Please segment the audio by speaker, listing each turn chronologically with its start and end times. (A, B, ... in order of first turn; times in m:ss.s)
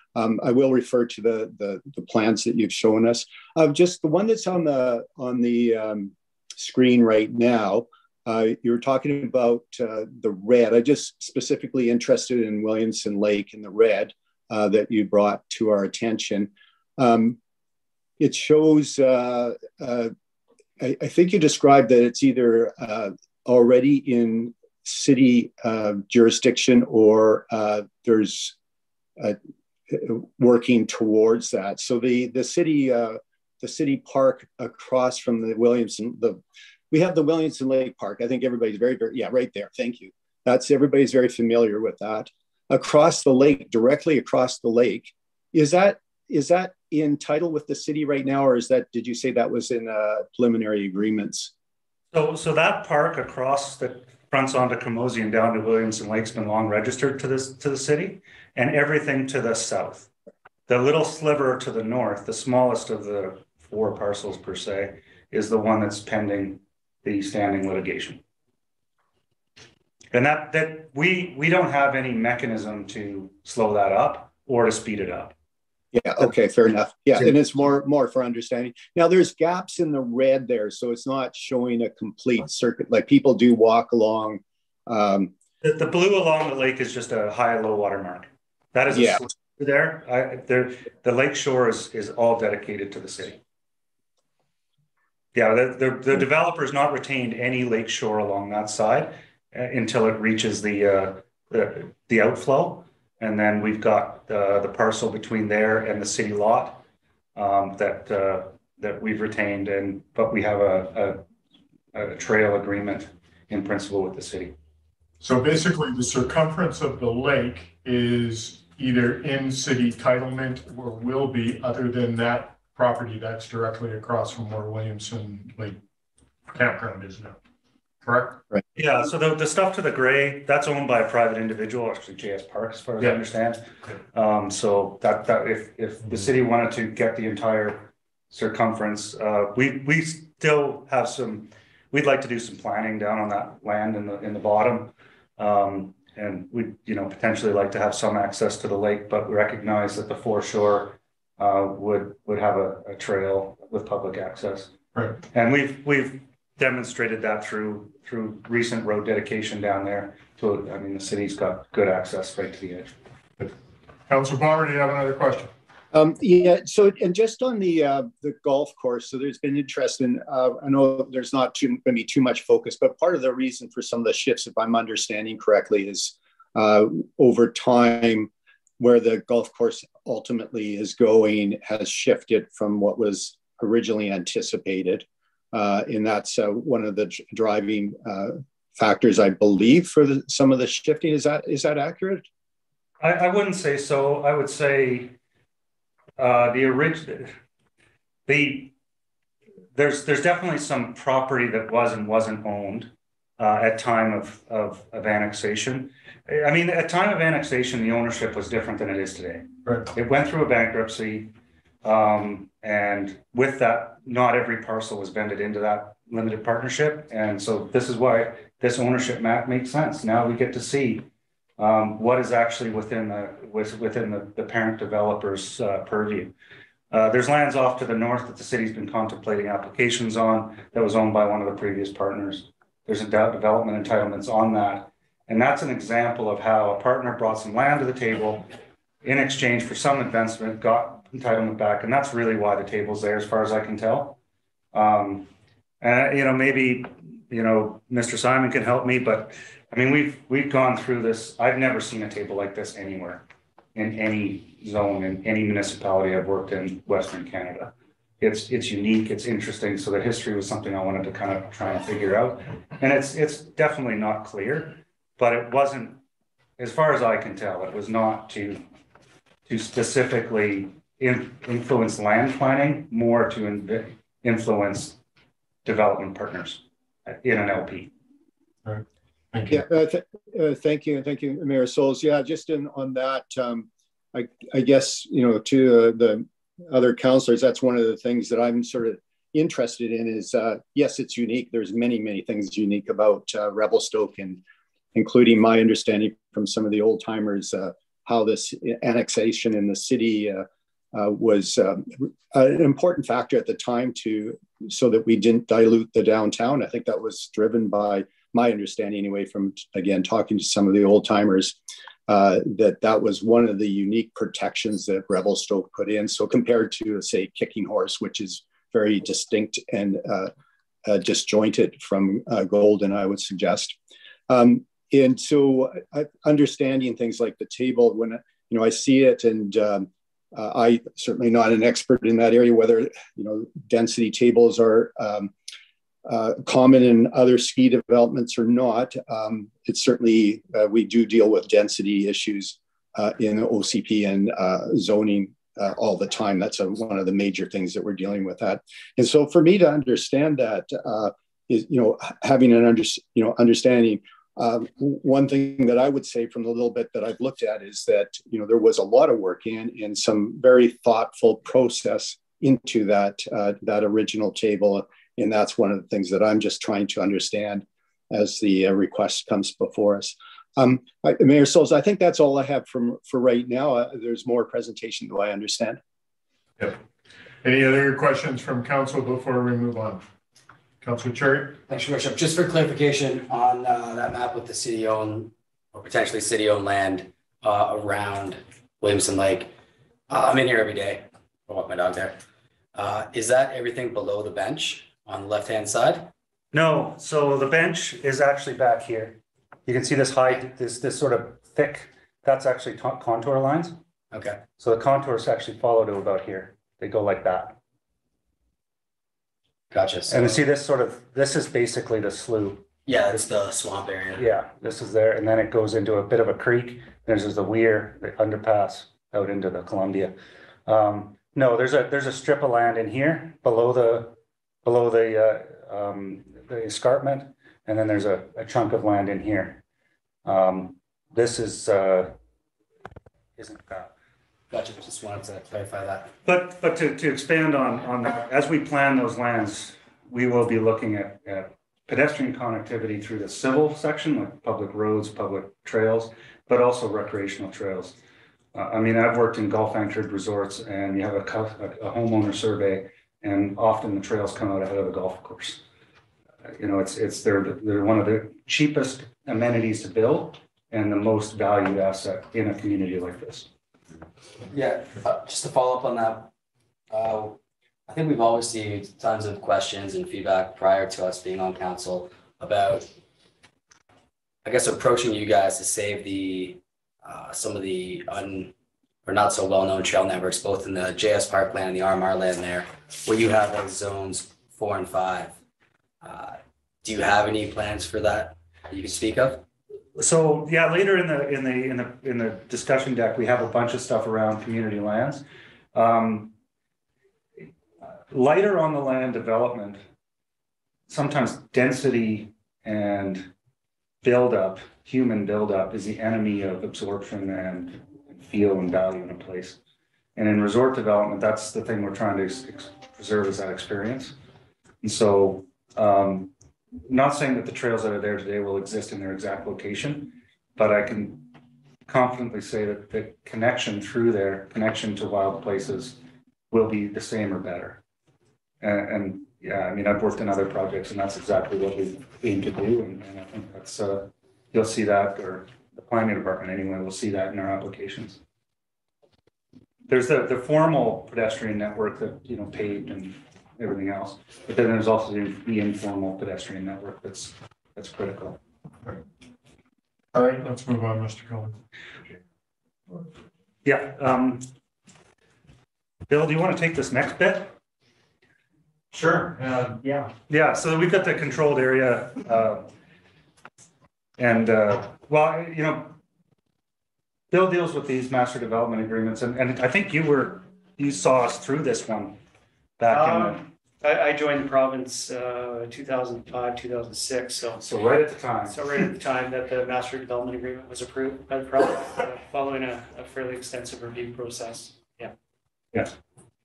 0:00.2-0:17.4 A
0:18.2-0:20.1 A
0:20.8-0:28.6 A
0:29.9-0:51.5 A
0:52.1-1:00.1 B
1:00.7-1:08.2 B
1:10.1-1:15.3 B
1:15.9-1:25.3 A
1:25.6-1:33.4 B
1:28.9-1:29.2 A
1:35.3-1:46.8 B
1:47.4-1:51.2 B
1:51.9-1:54.6 B
1:55.2-2:05.8 C
2:06.5-2:07.4 C
2:08.0-2:08.4 C
2:08.8-2:13.6 B
2:14.1-2:34.7 B
2:35.3-2:43.0 B
2:44.1-2:45.5 C
2:45.9-3:12.3 A
3:13.0-3:15.1 B
3:16.2-3:17.3 B
3:18.3-3:18.7 B
3:19.8-3:31.3 B
3:31.8-3:41.1 B
3:41.6-3:46.3 B
3:46.9-3:58.4 B
3:59.0-4:04.2 B
4:04.7-4:05.3 B
4:05.8-4:26.0 B
4:26.6-4:28.6 B
4:29.5-4:35.0 B
4:35.6-4:37.9 B
4:38.6-4:39.6 C
4:39.5-4:54.4 A
4:55.0-5:20.3 A
5:20.9-5:23.8 A
5:24.3-5:35.3 A
5:36.1-6:15.8 A
6:17.4-6:20.0 C
6:20.8-6:21.6 C
6:21.7-6:29.5 D
6:30.1-6:32.2 D
6:32.8-6:36.1 D
6:36.5-6:43.8 B
6:44.1-6:44.4 D
6:44.6-6:47.6 B
6:49.7-6:50.4 D
6:50.1-6:52.6 B
6:52.9-6:54.2 D
6:54.2-7:00.1 B
7:00.7-7:09.6 B
7:10.2-7:12.1 B
7:13.4-7:13.9 B
7:14.5-7:16.1 D
7:16.2-7:28.0 B
7:28.5-7:35.6 B
7:36.6-7:43.5 B
7:44.5-7:46.3 D
7:46.9-7:52.9 D
7:54.4-7:58.5 D
7:59.0-8:05.4 D
8:06.0-8:09.4 D
8:10.0-8:16.3 B
8:18.1-8:19.8 B
8:20.9-8:23.3 B
8:24.0-8:29.6 B
8:30.2-8:34.2 B
8:34.8-8:36.3 B
8:36.8-8:41.3 B
8:41.9-8:46.0 B
8:46.5-8:47.8 B
8:48.6-8:58.2 B
8:59.9-9:08.4 B
9:10.1-9:11.6 C
9:13.6-9:14.5 B
9:16.1-9:17.5 B
9:18.9-9:20.0 E
9:20.1-9:22.7 B
9:24.2-9:26.0 B
9:27.3-9:32.2 B
9:32.8-9:33.4 B
9:32.9-9:37.6 E
9:37.6-9:38.6 B
9:38.5-9:45.1 E